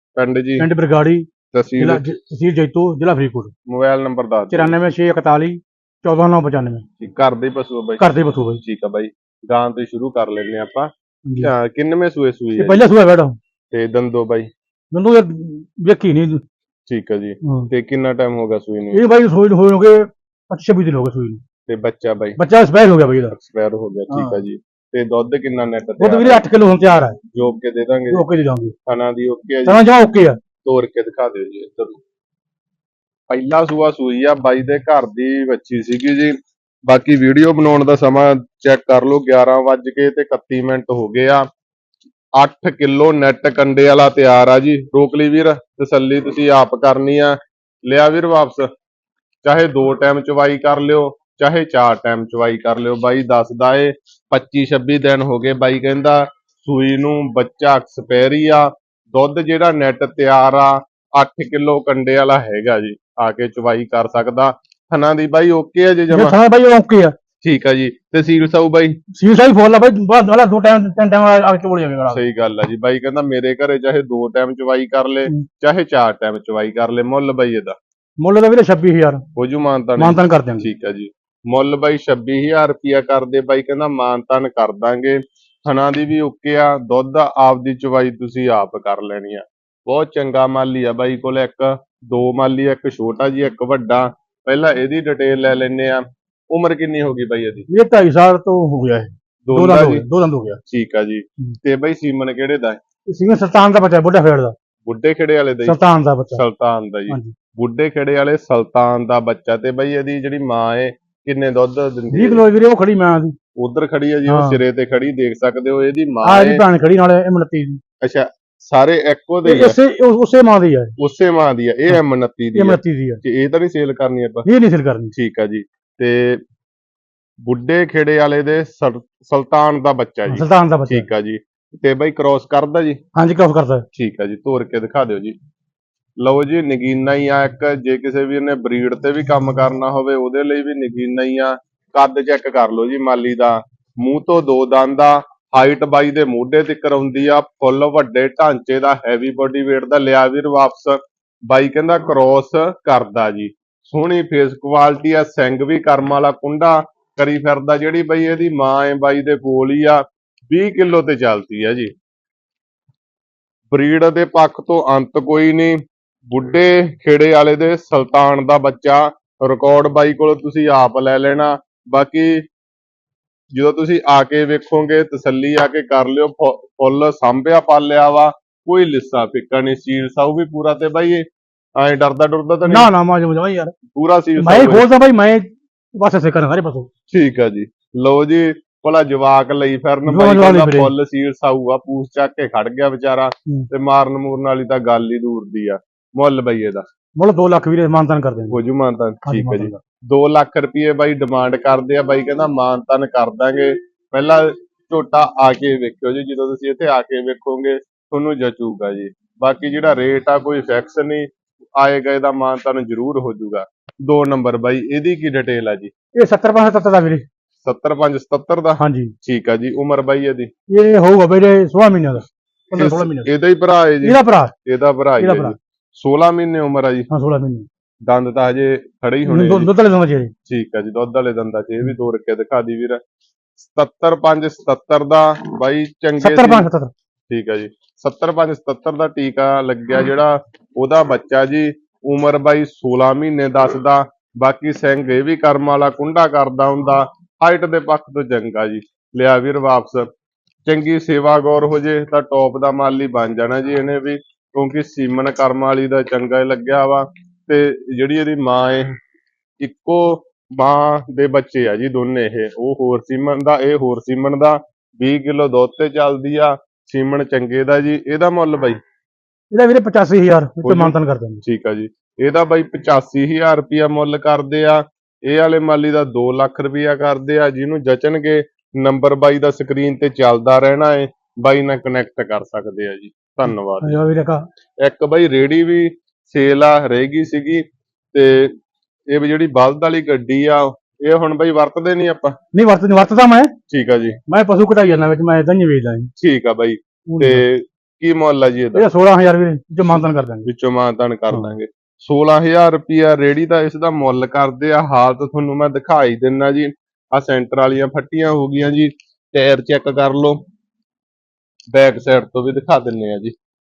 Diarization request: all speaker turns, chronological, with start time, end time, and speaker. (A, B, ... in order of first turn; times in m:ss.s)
0:00.2-0:00.7 A
0:00.6-0:03.5 B
0:01.5-0:02.0 A
0:03.7-0:04.7 A
0:04.5-0:06.8 B
0:07.0-0:08.0 A
0:08.0-0:08.6 B
0:08.6-0:10.9 A
0:11.3-0:11.5 B
0:11.4-0:12.9 A
0:12.5-0:13.4 B
0:13.7-0:14.5 A
0:14.9-0:16.4 B
0:16.9-0:19.0 A
0:17.4-0:17.7 B
0:18.9-0:21.4 B
0:21.7-0:22.4 A
0:22.4-0:23.4 B
0:23.4-0:26.4 A
0:24.1-0:24.4 B
0:26.0-0:27.2 B
0:27.3-0:28.2 A
0:28.1-0:28.7 B
0:28.8-0:29.8 A
0:29.6-0:30.4 B
0:30.6-0:32.0 A
0:33.3-0:41.4 A
0:42.4-0:48.7 A
0:49.4-1:06.4 A
1:06.1-1:07.1 B
1:07.4-1:09.0 A
1:09.1-1:12.2 B
1:12.1-1:17.8 A
1:18.2-1:19.2 B
1:19.4-1:37.7 A
1:20.0-1:20.7 B
1:37.7-1:40.6 B
1:39.5-1:40.0 A
1:40.7-1:42.8 A
1:43.1-1:44.6 B
1:44.9-1:45.8 A
1:45.6-1:46.4 B
1:46.3-1:52.4 A
1:47.1-1:47.3 B
1:52.1-1:53.3 B
1:53.6-1:56.6 A
1:54.3-1:54.6 B
1:56.2-1:57.8 B
1:58.0-1:59.8 A
1:59.4-2:01.0 B
2:01.0-2:04.5 A
2:02.6-2:03.2 B
2:04.5-2:05.1 B
2:05.1-2:06.4 A
2:07.5-2:13.0 A
2:10.3-2:11.1 B
2:13.2-2:13.9 B
2:13.9-2:15.4 A
2:16.2-2:41.9 A
2:43.7-2:52.4 A
2:53.6-3:01.2 A
3:01.8-3:02.9 A
3:02.7-3:03.7 B
3:03.9-3:04.8 A
3:04.4-3:06.9 B
3:07.1-3:16.8 A
3:10.1-3:10.9 B
3:17.2-3:18.6 B
3:18.5-3:35.9 A
3:19.2-3:19.8 B
3:36.1-3:37.2 B
3:37.6-3:40.5 A
3:38.8-3:39.1 B
3:40.7-3:43.3 B
3:42.8-3:47.1 A
3:44.0-3:44.5 B
3:45.2-3:45.6 B
3:47.1-3:47.7 B
3:48.1-3:49.7 A
3:49.3-3:50.3 B
3:50.5-3:53.0 A
3:53.6-3:56.6 A
3:56.2-3:56.9 B
3:57.3-4:10.1 A
4:10.7-4:18.9 A
4:19.6-4:28.8 A
4:29.5-4:31.4 B
4:30.6-4:44.0 A
4:43.8-4:44.4 B
4:44.8-4:48.5 A
4:49.1-4:52.4 A
4:52.5-4:53.5 B
4:53.7-4:54.2 A
4:54.3-4:56.1 B
4:56.2-4:58.9 A
4:57.1-4:57.4 B
4:58.8-5:00.5 B
4:59.9-5:10.4 A
5:11.7-5:13.3 A